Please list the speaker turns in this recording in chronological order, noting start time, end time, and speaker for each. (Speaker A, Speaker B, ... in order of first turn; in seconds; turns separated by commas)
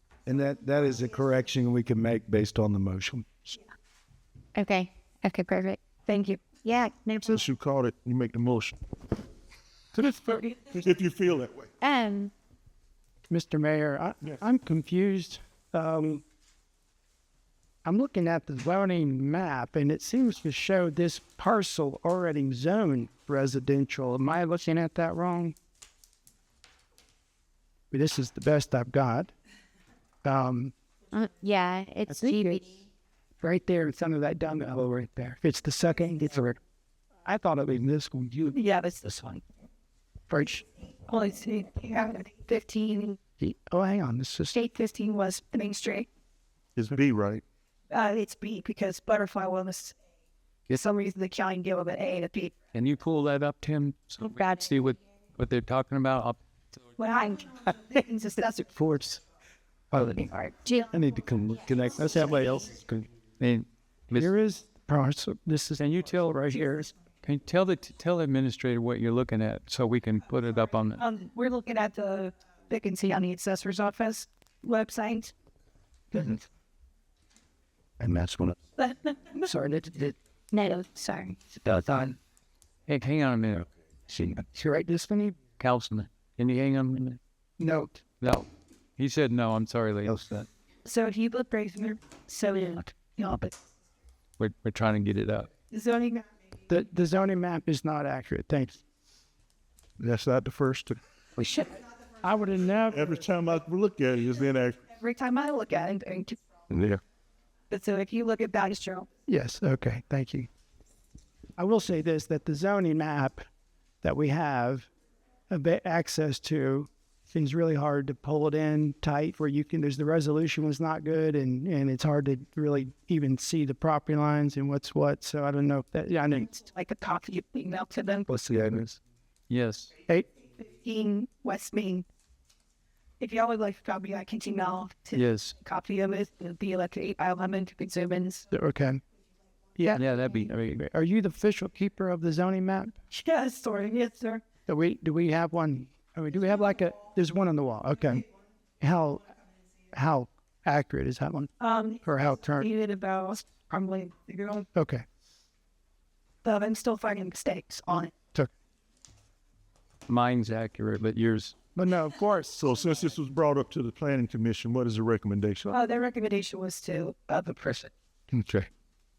Speaker A: 0.3-3.0, Speaker B: 0.6-3.2, Speaker C: 4.5-5.8, Speaker D: 6.1-6.4, Speaker C: 6.6-7.5, Speaker E: 7.3-8.8, Speaker D: 9.9-10.9, Speaker E: 10.8-11.7, Speaker C: 11.8-12.3, Speaker B: 13.3-16.2, Speaker B: 17.9-25.6, Speaker B: 27.9-29.3, Speaker B: 30.2-30.7, Speaker C: 31.1-32.9, Speaker B: 32.1-32.6, Speaker B: 33.4-36.6, Speaker B: 37.2-38.5, Speaker D: 38.5-39.4, Speaker B: 40.3-40.6, Speaker D: 41.1-43.2, Speaker B: 43.4-44.6, Speaker D: 44.5-46.1, Speaker E: 46.8-47.4, Speaker D: 47.9-50.0, Speaker D: 50.7-52.6, Speaker F: 52.7-56.8, Speaker D: 57.0-58.9, Speaker B: 58.8-59.2, Speaker B: 59.9-60.3, Speaker C: 60.5-60.9, Speaker B: 60.9-62.8, Speaker A: 61.0-62.7, Speaker F: 63.4-64.3, Speaker B: 64.2-66.9, Speaker F: 65.8-66.3, Speaker D: 66.5-66.9, Speaker F: 67.2-71.0, Speaker D: 71.0-75.3, Speaker D: 76.1-76.5, Speaker B: 78.0-78.5, Speaker D: 78.8-79.5, Speaker B: 79.3-80.2, Speaker D: 80.5-81.7, Speaker B: 81.6-82.2, Speaker F: 82.9-83.7, Speaker B: 84.1-85.4, Speaker F: 85.5-87.2, Speaker B: 87.6-88.0, Speaker F: 88.2-90.2, Speaker B: 90.1-90.5, Speaker D: 90.8-93.5, Speaker F: 94.4-95.5, Speaker D: 95.7-96.3, Speaker B: 96.7-98.8, Speaker E: 100.0-101.0, Speaker D: 101.4-101.8, Speaker B: 102.2-103.1, Speaker E: 102.9-104.9, Speaker D: 104.9-106.4, Speaker E: 106.7-107.0, Speaker D: 107.7-109.1, Speaker B: 109.3-110.5, Speaker B: 111.6-113.5, Speaker B: 114.0-114.9, Speaker B: 115.5-126.6, Speaker D: 126.6-128.3, Speaker B: 128.3-129.0, Speaker F: 129.5-129.9, Speaker D: 130.6-132.1, Speaker D: 133.2-138.4, Speaker F: 135.1-135.5, Speaker B: 138.5-139.0, Speaker B: 139.8-140.0, Speaker F: 139.9-140.8, Speaker B: 140.8-143.0, Speaker D: 143.1-144.4, Speaker B: 144.7-148.3, Speaker B: 148.8-149.3, Speaker B: 149.9-151.5, Speaker D: 151.6-152.1, Speaker B: 152.0-152.7, Speaker D: 152.6-154.7, Speaker B: 154.8-155.0, Speaker D: 156.4-158.1, Speaker F: 160.1-161.5, Speaker B: 161.8-162.7, Speaker E: 162.6-165.8, Speaker D: 165.7-167.9, Speaker E: 168.3-168.7